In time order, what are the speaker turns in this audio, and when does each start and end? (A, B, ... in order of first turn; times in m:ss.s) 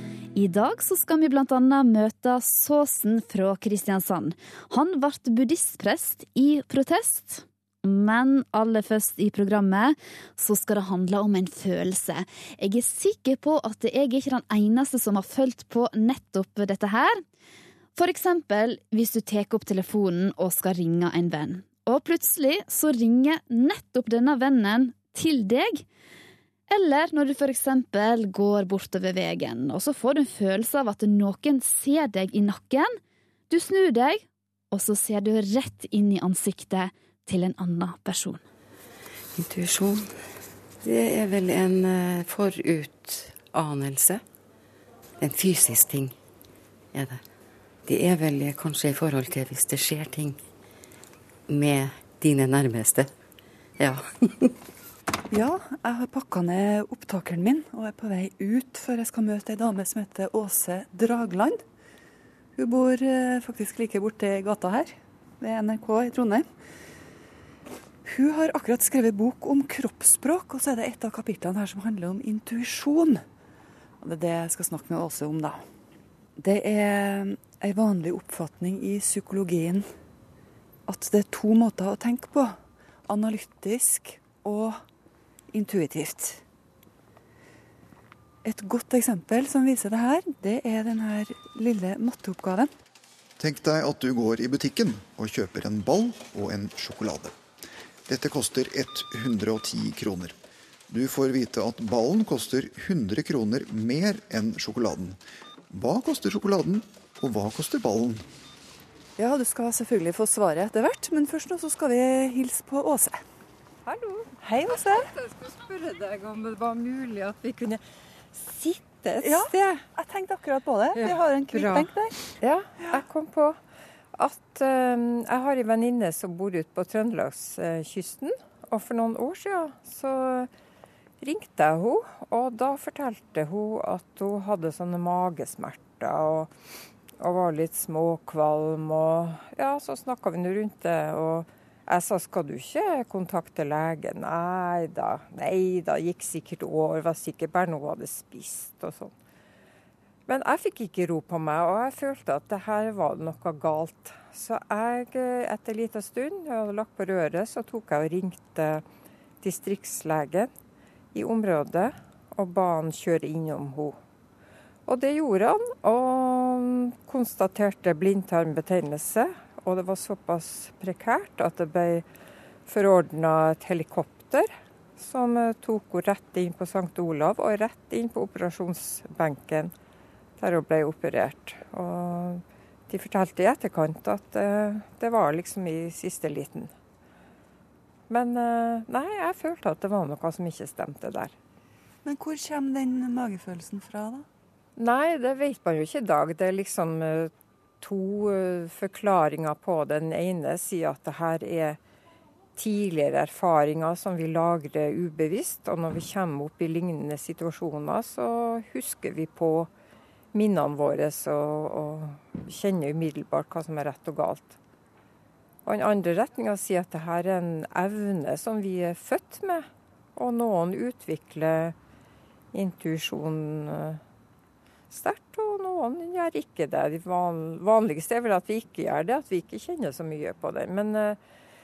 0:00.4-0:17.2 A
0:18.0-0:25.8 A
0:26.7-0:33.0 A
0:33.5-0:38.4 A
0:39.4-0:40.3 B
0:40.8-0:44.2 B
0:45.2-0:46.2 B
0:46.9-0:47.2 B
0:47.9-0:50.4 B
0:51.5-0:53.1 B
0:53.8-0:54.5 B
0:55.3-1:01.6 C
1:02.6-1:06.5 C
1:08.0-1:13.2 C
1:14.0-1:15.7 C
1:16.4-1:19.9 C
1:20.9-1:24.8 C
1:25.5-1:26.4 C
1:28.4-1:32.7 C
1:33.4-1:37.3 D
1:38.0-1:40.4 D
1:40.9-1:48.2 D
1:49.2-1:53.2 C
1:53.8-1:54.3 E
1:54.4-1:55.1 C
1:55.1-1:57.8 E
1:58.3-1:59.7 E
1:59.2-2:03.0 C
2:00.9-2:03.6 E
2:04.2-2:10.5 E
2:11.2-2:16.5 E
2:17.2-2:29.1 E
2:30.3-2:38.8 E
2:39.4-2:40.5 E
2:41.1-2:44.0 E
2:44.9-2:52.0 E
2:52.7-2:59.7 E
3:00.4-3:06.7 E
3:08.1-3:11.4 E
3:12.0-3:14.2 C
3:14.8-3:21.8 E
3:22.6-3:29.7 E
3:30.3-3:34.6 E
3:35.6-3:41.7 E
3:42.5-3:44.0 E
3:44.9-3:51.2 E